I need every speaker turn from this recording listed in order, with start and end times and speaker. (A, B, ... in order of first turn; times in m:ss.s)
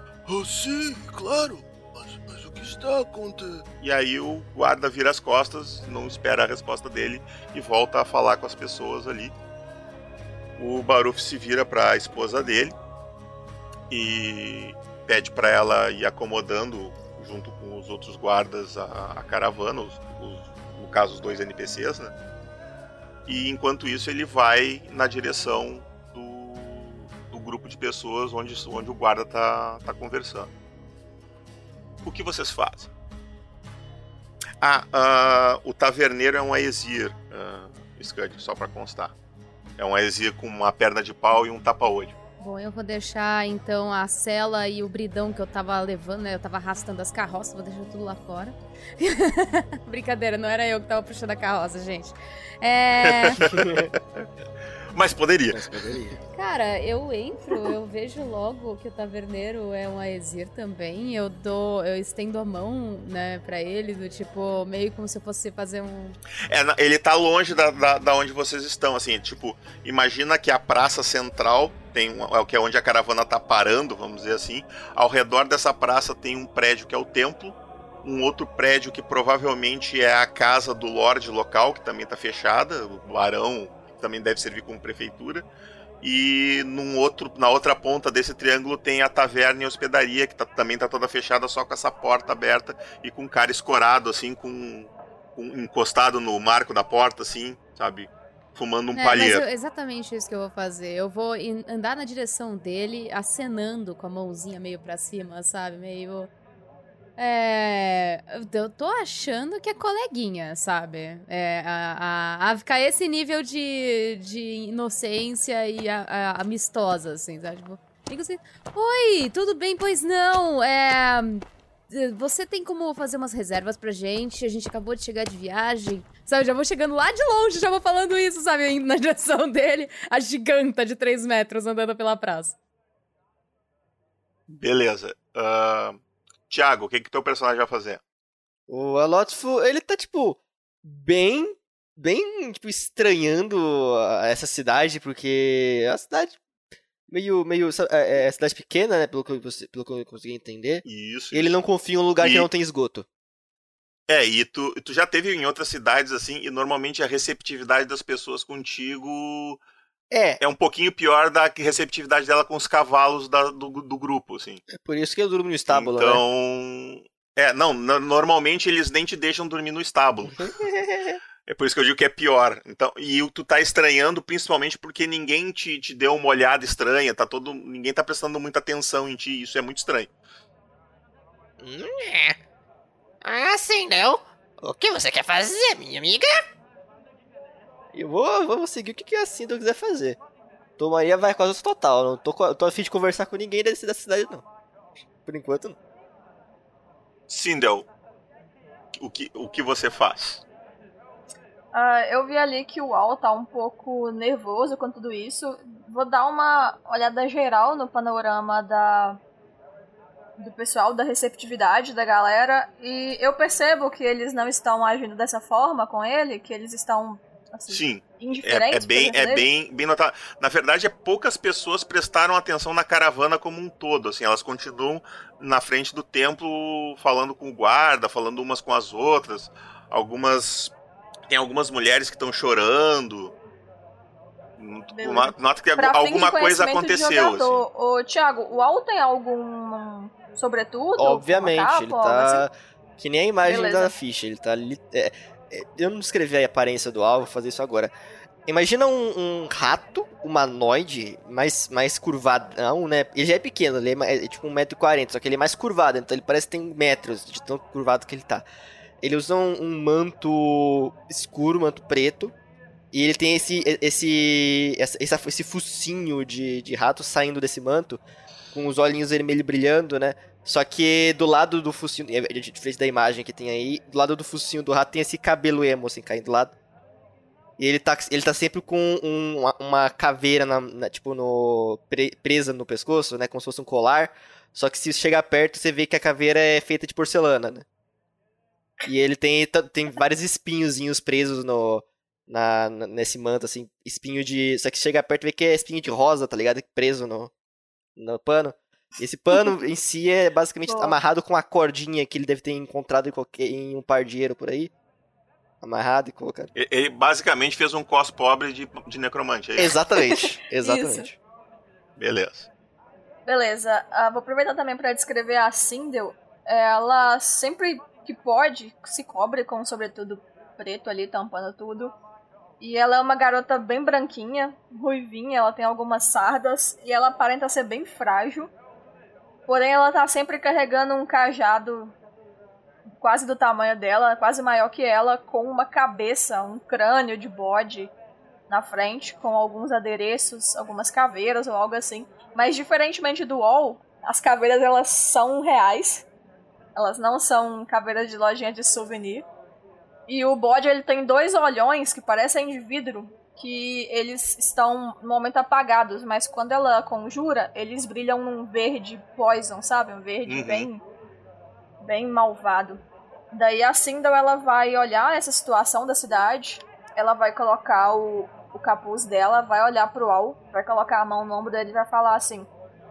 0:00.3-0:03.6 A
0:03.8-0:09.3 B
0:10.6-0:12.8 B
0:13.9-0:22.1 B
0:23.3-0:30.5 B
0:32.0-0:32.9 B
0:34.6-0:39.1 B
0:39.8-0:42.2 B
0:42.4-0:53.4 C
0:53.0-0:54.2 B
0:54.9-0:56.0 B
0:55.7-0:56.2 D
0:56.3-1:06.2 C
1:06.5-1:25.5 B
1:26.0-1:39.4 B
1:39.0-1:46.3 C
1:47.2-2:12.6 C
2:14.5-2:18.0 B
2:18.7-2:26.4 D
2:27.1-2:33.0 D
2:30.8-2:31.6 B
2:32.2-2:32.5 B
2:34.1-2:39.6 B
2:40.1-2:40.4 D
2:40.4-2:44.6 B
2:44.7-2:46.2 D
2:45.7-2:50.5 B
2:50.3-2:51.2 D
2:51.5-3:00.1 B
3:01.6-3:02.4 E
3:03.2-3:06.3 E
3:07.9-3:10.2 D
3:10.8-3:14.4 D
3:15.2-3:15.8 D
3:17.3-3:17.9 B
3:19.0-3:20.4 B
3:21.7-3:29.2 F
3:30.4-3:39.5 F
3:37.7-3:50.7 B
3:51.3-3:53.4 B
3:54.6-3:57.6 B
3:54.9-4:02.5 F
4:01.0-4:07.9 D
4:03.4-4:04.0 F
4:08.5-4:18.4 D
4:19.0-4:22.3 D
4:22.9-4:28.0 D
4:28.5-4:36.5 D
4:37.6-4:47.6 D
4:48.9-4:57.3 D
4:58.0-5:04.7 D
5:00.6-5:01.0 F
5:05.6-5:06.5 D
5:06.5-5:09.8 B
5:09.6-5:11.2 D
5:10.0-5:11.1 F
5:12.0-5:12.5 B
5:13.2-5:22.0 F
5:22.6-5:28.5 F
5:29.5-5:32.0 F
5:33.0-5:37.9 F
5:38.5-5:46.0 F
5:46.8-5:49.3 F
5:50.1-6:00.8 F
6:00.3-6:00.7 B
6:01.8-6:12.5 F